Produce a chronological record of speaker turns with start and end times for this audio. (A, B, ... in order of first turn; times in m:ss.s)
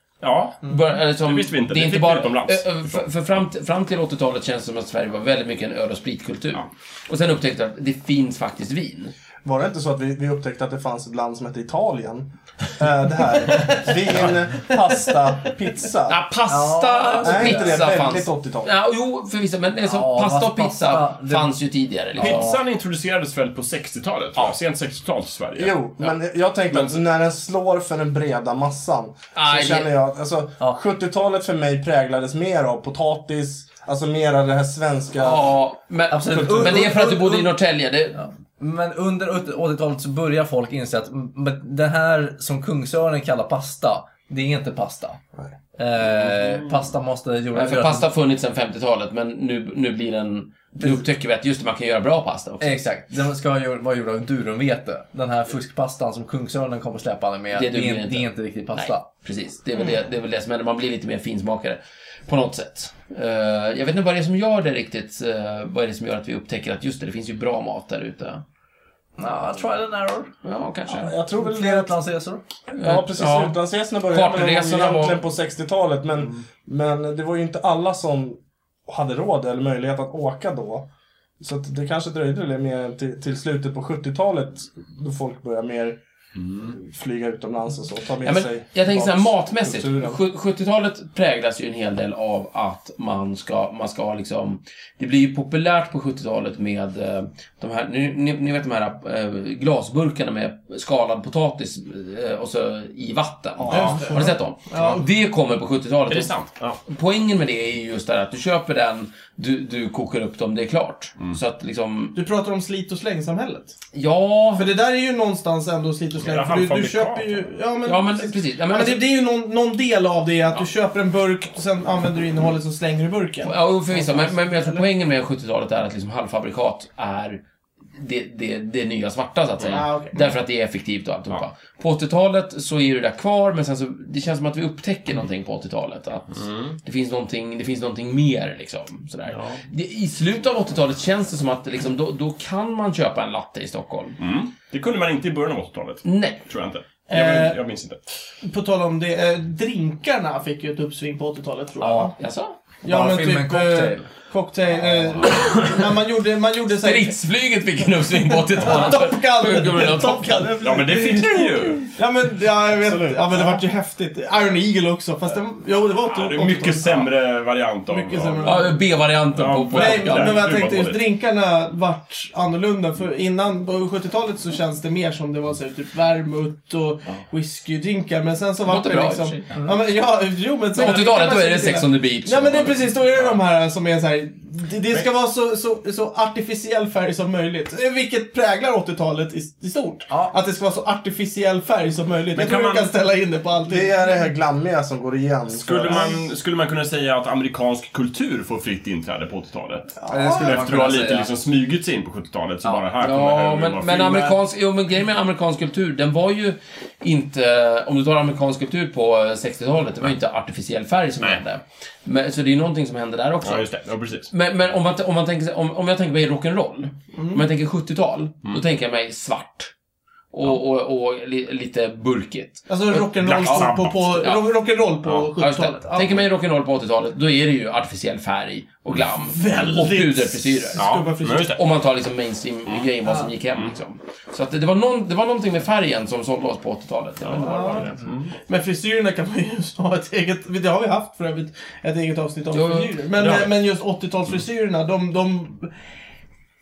0:00.2-0:03.1 A
0:00.6-0:09.1 B
0:09.4-0:16.2 C
0:13.5-0:13.9 D
0:14.7-0:15.2 D
0:16.1-0:22.5 B
0:16.5-0:17.9 E
0:17.2-0:18.7 C
0:19.8-0:21.5 E
0:22.2-0:22.5 E
0:22.2-0:25.8 A
0:25.6-0:35.5 C
0:26.7-0:27.0 A
0:29.3-0:29.9 B
0:35.2-0:38.2 B
0:36.1-0:37.6 E
0:36.3-0:36.8 C
0:38.1-0:45.2 E
0:45.8-0:48.1 E
0:47.5-0:52.9 B
0:50.8-0:51.0 E
0:52.6-0:59.1 E
0:57.5-1:08.4 B
1:09.2-1:10.3 E
1:10.4-1:11.1 B
1:10.9-1:12.0 C
1:11.0-1:12.4 E
1:12.7-1:15.2 B
1:12.8-1:20.9 C
1:21.4-1:26.0 C
1:26.6-1:30.2 C
1:28.2-1:46.3 B
1:43.6-1:44.1 C
1:43.7-1:44.0 A
1:43.7-1:45.0 D
1:46.1-1:46.8 A
1:46.8-1:52.2 B
1:52.1-1:53.8 D
1:53.9-1:54.7 B
1:54.6-2:04.8 D
1:56.2-1:57.5 A
1:57.8-1:59.0 B
2:03.4-2:07.4 B
2:08.0-2:24.2 B
2:09.7-2:10.3 D
2:16.4-2:16.8 A
2:19.3-2:19.6 A
2:24.2-2:28.0 A
2:26.0-2:26.4 B
2:27.1-2:27.6 D
2:28.4-2:32.1 D
2:31.8-2:32.1 E
2:32.1-2:32.6 B
2:32.8-2:37.2 D
2:32.8-2:34.1 E
2:36.8-2:40.5 B
2:38.5-2:47.1 D
2:40.6-2:41.9 A
2:42.7-2:43.6 C
2:46.0-2:48.8 A
2:47.9-2:48.8 D
2:48.4-2:50.4 B
2:49.3-2:51.0 A
2:49.7-3:14.1 D
2:58.6-2:59.4 B
3:00.7-3:02.8 B
3:10.1-3:10.4 E
3:12.3-3:12.9 A
3:13.7-3:16.2 C
3:15.5-3:24.4 A
3:15.9-3:16.1 D
3:20.0-3:20.9 D
3:20.1-3:21.3 E
3:22.6-3:33.7 B
3:33.4-3:34.3 A
3:34.3-3:39.7 B
3:37.1-3:37.4 D
3:40.3-3:44.5 B
3:42.7-3:46.2 D
3:43.1-3:44.3 A
3:45.4-3:50.9 B
3:49.0-3:51.6 D
3:50.8-3:51.6 A
3:51.4-3:57.9 B
3:57.2-3:58.3 A
3:57.4-4:05.7 D
4:02.5-4:03.0 B
4:03.2-4:03.5 A